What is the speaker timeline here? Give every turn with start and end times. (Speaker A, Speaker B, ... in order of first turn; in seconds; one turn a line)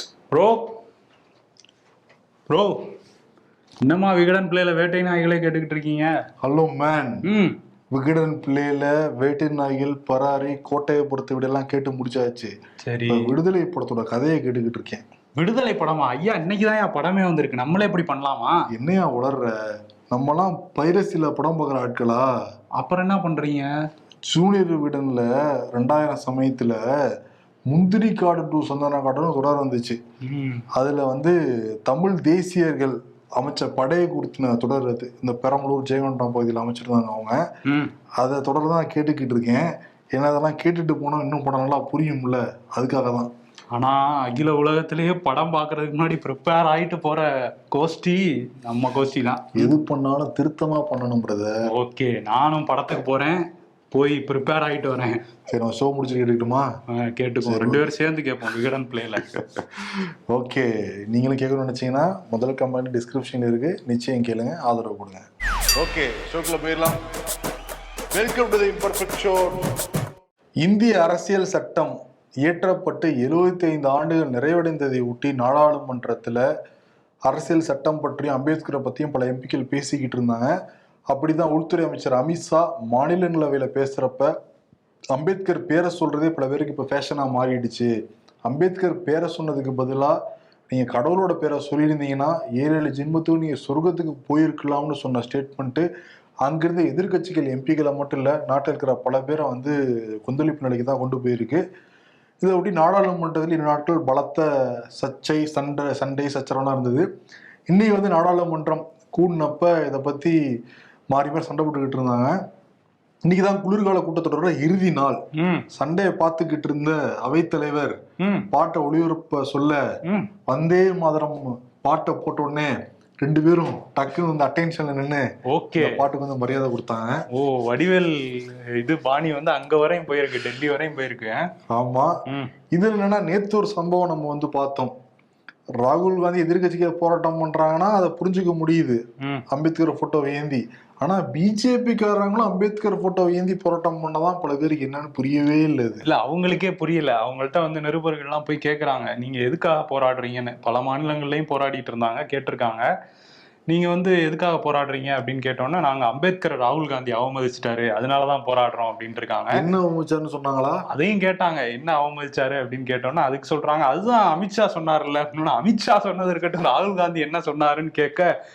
Speaker A: 0.3-0.7
Speaker A: 2.5-2.8
Speaker A: 3.9-6.1
Speaker B: 6.4-7.2
Speaker A: 7.2-7.5
Speaker B: 7.9-12.5
Speaker A: 12.8-13.3
Speaker B: 13.1-15.0
Speaker A: 15.4-18.6
Speaker B: 18.7-19.5
Speaker B: 20.1-22.3
Speaker A: 22.8-23.7
Speaker B: 24.3-26.8
Speaker B: 27.7-30.0
Speaker A: 30.2-30.6
Speaker B: 30.7-37.4
Speaker A: 37.7-37.9
Speaker B: 38.2-43.3
Speaker A: 43.7-49.8
Speaker B: 49.5-51.5
Speaker A: 51.7-53.4
Speaker A: 53.9-55.2
Speaker B: 55.5-56.7
Speaker A: 56.9-59.3
Speaker B: 57.5-57.8
Speaker B: 59.3-67.0
Speaker B: 68.1-69.7
Speaker B: 70.6-76.4
Speaker B: 77.2-80.5
Speaker B: 81.1-84.3
Speaker B: 85.1-87.9
Speaker B: 88.5-90.2
Speaker B: 90.7-95.8
Speaker B: 96.4-101.6
Speaker B: 102.4-107.0
Speaker B: 107.7-110.4
Speaker B: 111.1-112.4
Speaker B: 113.2-118.0
Speaker A: 115.3-115.7
Speaker A: 118.2-118.5
Speaker B: 118.5-119.8
Speaker A: 120.0-120.3
Speaker B: 120.5-127.2
Speaker A: 125.5-126.0
Speaker A: 127.3-131.4
Speaker B: 131.7-132.1
Speaker A: 132.3-132.5
Speaker B: 132.7-134.9
Speaker B: 135.8-146.0
Speaker A: 146.0-152.8
Speaker A: 153.7-159.6
Speaker B: 159.5-160.8
Speaker A: 160.9-168.3